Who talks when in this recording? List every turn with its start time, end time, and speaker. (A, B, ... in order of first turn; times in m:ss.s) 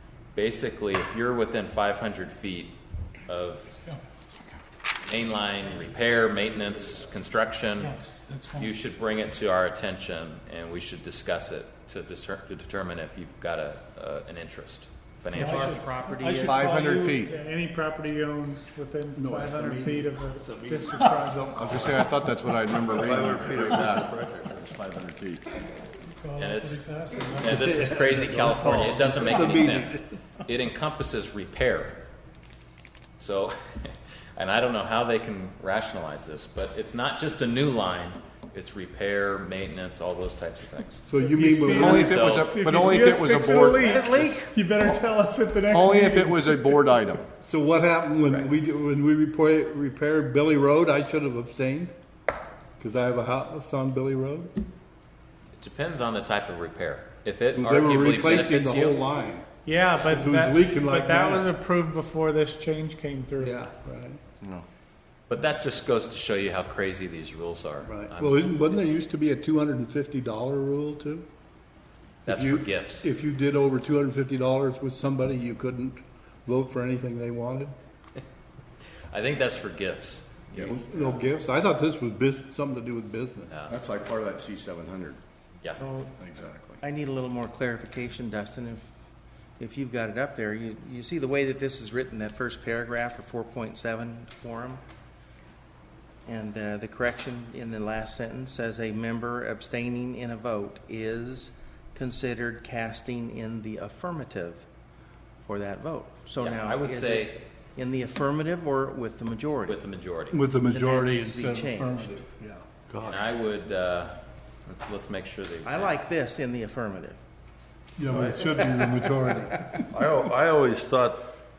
0:00.3-0:02.7 A
0:03.3-0:03.8 A
0:05.0-0:08.0 A
0:07.8-0:08.7 B
0:08.6-0:15.8 A
0:15.3-0:16.9 C
0:15.4-0:17.1 B
0:16.5-0:17.4 D
0:17.2-0:21.8 E
0:19.2-0:22.3 F
0:21.5-0:24.1 D
0:22.9-0:25.0 G
0:24.7-0:25.4 D
0:26.4-0:32.0 A
0:26.7-0:27.6 E
0:27.4-0:30.1 F
0:33.2-0:41.0 A
0:41.1-0:42.2 F
0:41.1-0:46.8 E
0:41.7-0:44.4 D
0:42.0-0:42.6 A
0:43.8-0:44.5 C
0:45.7-0:47.3 D
0:47.4-0:51.9 F
0:52.8-0:54.5 F
0:55.6-0:59.0 A
0:57.6-0:59.5 F
0:59.6-1:03.6 E
1:00.0-1:00.2 A
1:00.0-1:01.5 F
1:03.4-1:04.2 F
1:05.3-1:08.4 A
1:07.8-1:11.3 F
1:12.2-1:13.1 A
1:12.3-1:17.7 F
1:19.1-1:20.8 A
1:20.5-1:21.0 D
1:20.6-1:23.5 F
1:23.5-1:23.8 A
1:23.7-1:25.2 D
1:25.8-1:26.1 C
1:26.2-1:26.8 D
1:26.8-1:28.9 C
1:29.6-1:34.8 C
1:36.2-1:44.6 C
1:45.4-1:49.8 C
1:46.4-1:47.4 A
1:49.7-1:50.4 A
1:50.3-1:52.7 F
1:50.7-1:52.2 C
1:52.9-1:53.3 G
1:53.0-1:55.9 A
1:55.6-1:57.2 C
1:58.0-1:59.7 F
1:58.1-1:58.7 G
1:59.9-2:01.2 G